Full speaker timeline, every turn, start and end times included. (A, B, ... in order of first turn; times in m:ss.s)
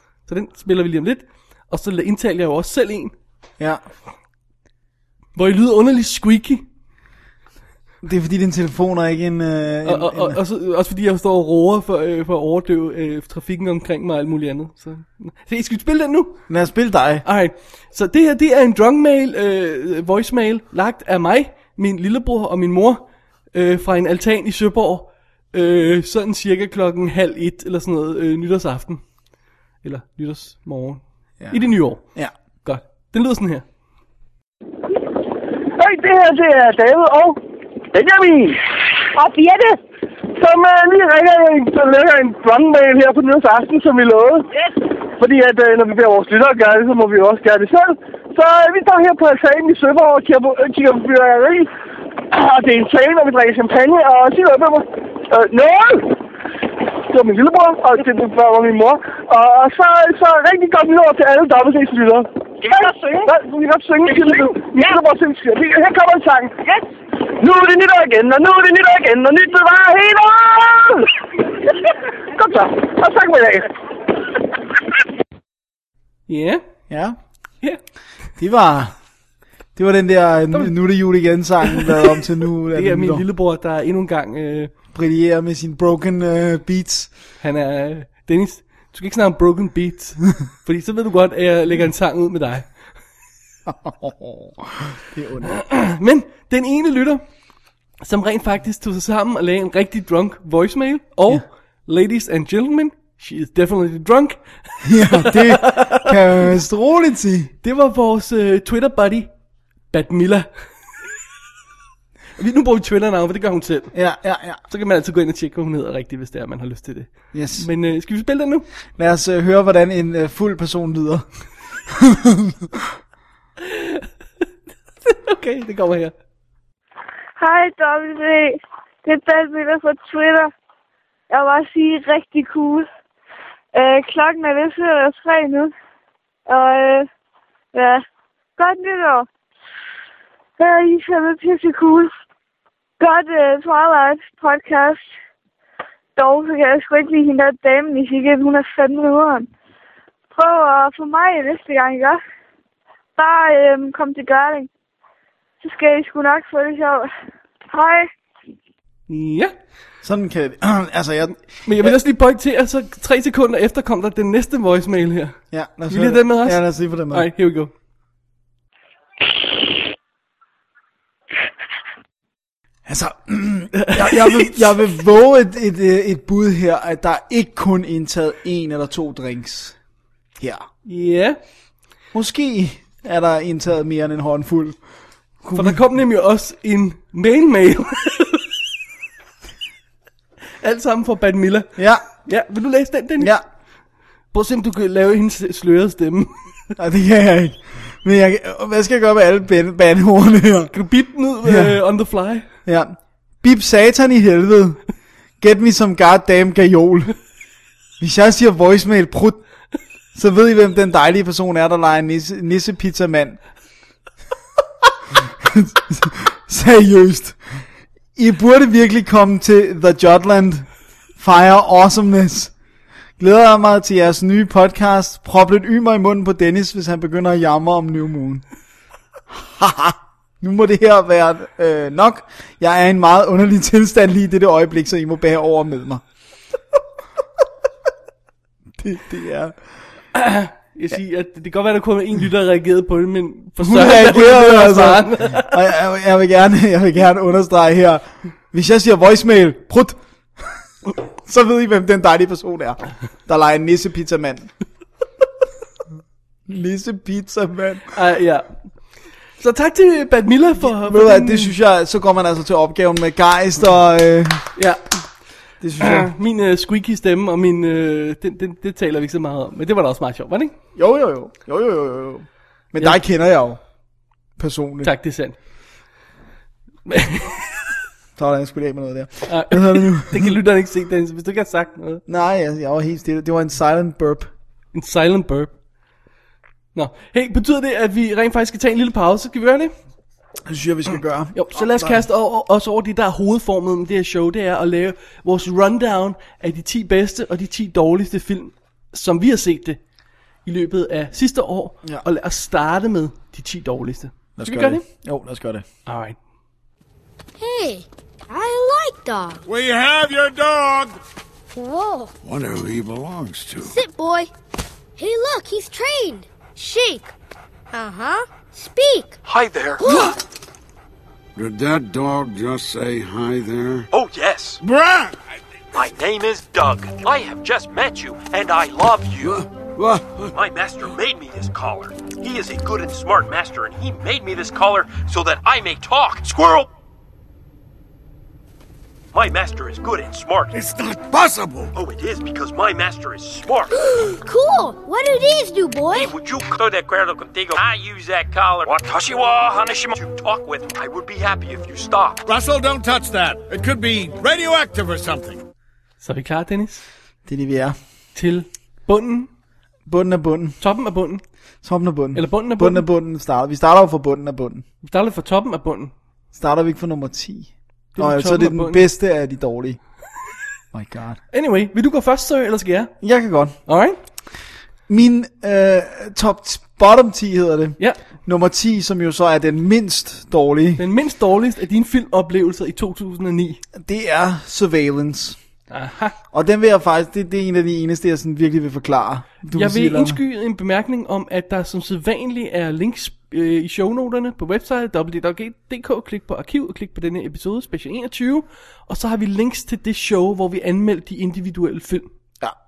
0:00.3-0:03.1 A
0:05.4-0:06.6 A
0:08.0-0:10.4 B
0:09.8-0:16.4 A
0:16.5-0:17.2 B
0:17.2-0:29.0 A
0:29.8-0:33.6 A
0:31.4-0:32.3 B
0:35.8-0:37.4 C
0:37.9-0:38.6 C
0:39.2-0:39.8 C
0:40.3-0:44.5 C
0:45.1-0:56.2 C
0:57.0-1:11.1 C
1:11.8-1:13.7 C
1:16.3-1:16.6 A
1:16.9-1:17.2 B
1:18.4-1:19.0 B
1:19.8-1:23.2 B
1:21.7-1:22.2 A
1:22.7-1:24.7 A
1:24.9-1:27.1 B
1:27.4-1:32.7 A
1:33.7-1:35.6 B
1:35.5-1:37.2 A
1:38.0-1:46.4 A
1:44.8-1:47.5 B
1:47.6-1:49.3 A
1:49.9-1:50.5 A
1:52.4-1:54.0 A
1:53.9-1:54.6 B
1:54.7-1:58.7 A
1:57.3-1:57.7 B
1:59.0-2:01.3 B
2:01.9-2:02.8 B
2:03.6-2:04.1 A
2:05.0-2:06.1 A
2:07.4-2:10.5 D
2:11.3-2:12.9 D
2:13.7-2:15.7 D
2:16.5-2:17.1 D
2:17.7-2:18.0 D
2:18.6-2:19.3 D
2:20.6-2:22.1 D
2:23.0-2:25.0 D
2:26.2-2:29.5 D
2:30.3-2:32.2 D
2:33.2-2:34.7 D
2:35.6-2:37.1 D
2:37.7-2:38.1 D
2:39.1-2:39.6 A
2:40.0-2:42.0 B
2:41.6-2:47.7 A
2:45.5-2:47.3 B
2:52.9-2:59.8 B
2:53.8-2:54.7 A
3:00.4-3:00.6 B
3:00.9-3:01.4 A
3:02.1-3:04.8 B
3:05.4-3:05.8 B
3:05.5-3:08.5 A
3:10.6-3:13.4 A
3:11.8-3:12.0 B
3:14.3-3:16.6 A
3:16.8-3:20.7 B
3:20.7-3:22.5 A
3:21.4-3:21.8 B
3:22.6-3:24.8 B
3:25.4-3:27.2 B
3:28.0-3:29.4 B
3:30.1-3:33.4 B
3:35.2-3:42.5 B
3:43.2-3:48.4 B
3:49.3-3:56.0 B
3:58.8-3:59.6 B
4:00.1-4:05.6 A
4:03.6-4:10.6 B
4:11.2-4:14.5 B
4:16.5-4:17.9 B
4:17.9-4:18.6 A
4:19.4-4:21.5 A
4:20.6-4:24.5 B
4:24.6-4:25.0 A
4:25.6-4:26.1 B
4:25.8-4:30.6 A
4:30.8-4:33.6 B
4:34.4-4:34.9 B
4:34.8-4:35.4 A
4:36.9-4:37.6 A
4:38.2-4:40.4 B
4:39.3-4:42.0 A
4:42.1-4:44.3 B
4:44.7-4:45.5 A
4:46.8-4:49.7 A
4:50.5-4:52.0 B
4:51.3-4:59.8 A
5:00.4-5:04.8 A
5:04.4-5:05.6 B
5:05.9-5:06.2 A
5:07.4-5:09.4 E
5:09.5-5:11.0 F
5:11.5-5:12.1 E
5:12.2-5:13.8 F
5:13.6-5:14.3 E
5:15.0-5:17.1 E
5:17.7-5:19.2 E
5:19.2-5:19.8 G
5:19.8-5:20.2 E
5:21.4-5:23.9 F
5:23.9-5:24.6 G
5:24.6-5:25.2 F
5:25.7-5:29.4 G
5:29.2-5:30.3 F
5:30.3-5:36.7 G
5:39.1-5:40.5 G
5:40.5-5:41.7 F
5:41.7-5:43.7 G
5:43.7-5:46.1 E
5:45.9-5:52.2 G
5:52.2-5:55.4 F
5:56.0-5:56.8 A
5:57.3-5:57.8 B
5:58.2-5:59.3 A
5:59.9-6:00.6 B
6:00.6-6:01.2 A
6:01.6-6:04.6 B
6:02.1-6:02.9 A
6:04.8-6:05.9 A
6:06.3-6:09.8 B
6:08.0-6:08.9 A
6:10.7-6:11.2 B
6:11.3-6:12.9 A
6:13.0-6:13.6 B
6:13.7-6:14.0 A
6:14.9-6:20.8 B
6:20.8-6:23.6 A
6:23.8-6:25.4 B
6:25.7-6:26.2 A
6:26.3-6:30.2 B
6:29.5-6:42.1 A